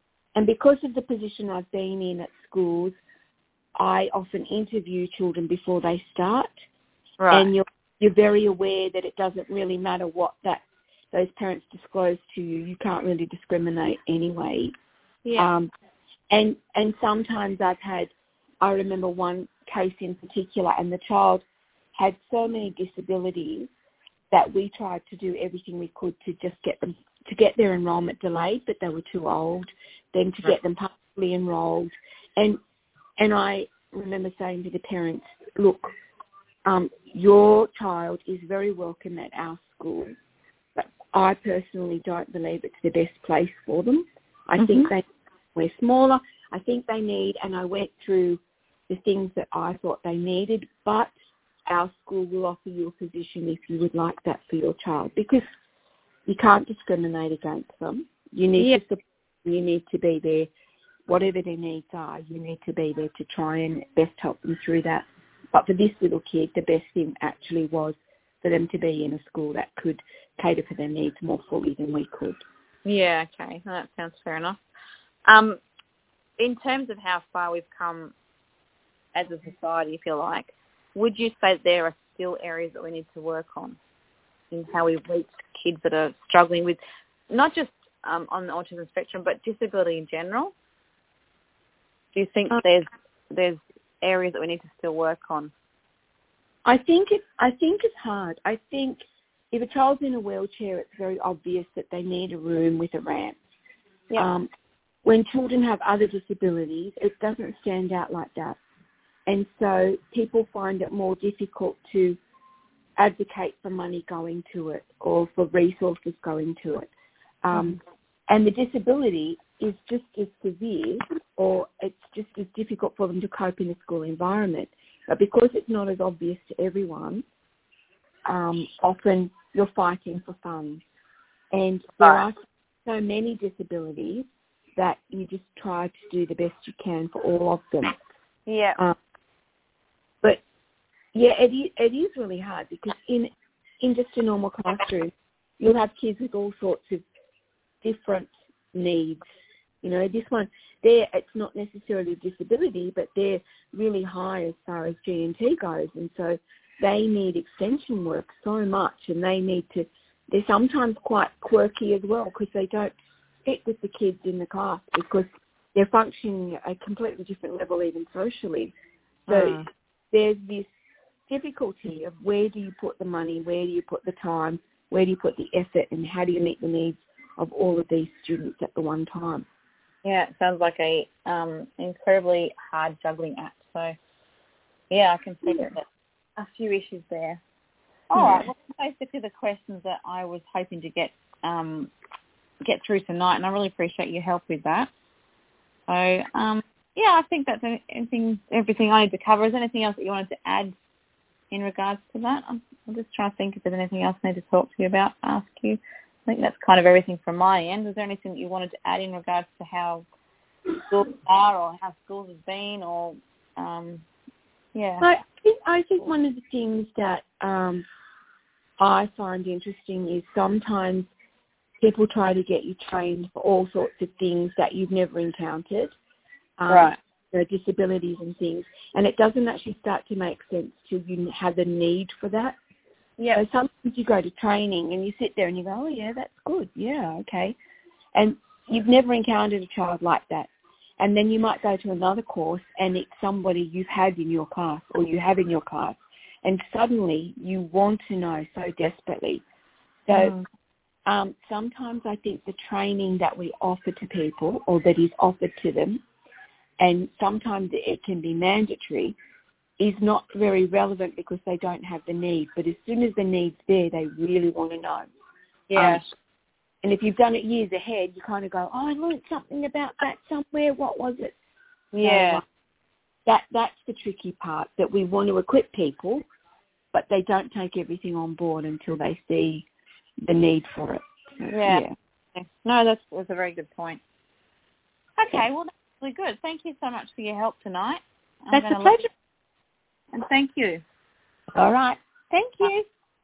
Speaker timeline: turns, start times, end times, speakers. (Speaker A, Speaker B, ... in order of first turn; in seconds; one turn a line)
Speaker A: 0.4-2.9
Speaker A: 3.8-6.5
Speaker B: 7.2-7.5
Speaker A: 7.3-14.7
Speaker B: 15.2-15.5
Speaker A: 15.4-15.7
Speaker A: 16.3-18.1
Speaker A: 18.6-21.4
Speaker A: 22.0-23.7
Speaker A: 24.3-32.6
Speaker A: 33.2-35.9
Speaker A: 36.7-40.1
Speaker A: 40.8-45.0
Speaker B: 44.6-44.9
Speaker A: 45.5-51.1
Speaker A: 51.7-55.4
Speaker A: 56.3-60.5
Speaker A: 61.1-72.4
Speaker B: 72.8-74.6
Speaker B: 75.3-75.6
Speaker B: 76.4-78.1
Speaker B: 79.2-83.8
Speaker B: 84.5-86.8
Speaker B: 87.3-90.5
Speaker B: 92.2-95.5
Speaker A: 96.7-103.4
Speaker A: 104.2-104.5
Speaker A: 105.0-108.6
Speaker A: 109.3-112.2
Speaker A: 113.0-116.9
Speaker A: 117.4-127.2
Speaker B: 117.5-117.8
Speaker A: 128.3-130.8
Speaker A: 131.5-132.3
Speaker A: 132.9-134.3
Speaker A: 134.8-137.9
Speaker B: 138.5-138.8
Speaker A: 141.1-143.3
Speaker A: 143.8-147.0
Speaker A: 147.8-149.2
Speaker A: 149.8-168.7
Speaker A: 169.3-169.6
Speaker B: 169.3-169.7
Speaker A: 170.1-170.7
Speaker A: 171.3-179.5
Speaker B: 180.1-184.0
Speaker B: 184.9-185.8
Speaker A: 185.5-185.7
Speaker B: 186.4-187.4
Speaker B: 188.1-191.9
Speaker A: 188.1-188.5
Speaker B: 192.6-194.9
Speaker B: 195.9-200.7
Speaker B: 201.5-210.1
Speaker B: 210.9-214.0
Speaker B: 214.8-215.1
Speaker A: 215.0-217.8
Speaker A: 218.8-221.1
Speaker A: 221.8-225.9
Speaker A: 226.6-232.6
Speaker B: 226.7-227.0
Speaker A: 233.3-237.6
Speaker A: 238.1-240.5
Speaker A: 241.0-249.4
Speaker A: 250.1-250.3
Speaker B: 250.1-250.5
Speaker A: 251.1-256.0
Speaker A: 256.8-259.2
Speaker A: 259.8-265.1
Speaker B: 265.7-266.0
Speaker A: 265.8-266.0
Speaker A: 266.8-271.4
Speaker B: 271.9-272.4
Speaker A: 272.0-272.4
Speaker A: 273.3-276.2
Speaker A: 276.9-279.7
Speaker A: 280.2-281.9
Speaker B: 281.5-281.8
Speaker B: 282.4-284.0
Speaker B: 285.2-289.0
Speaker A: 288.5-289.1
Speaker B: 290.1-290.8
Speaker A: 291.6-292.8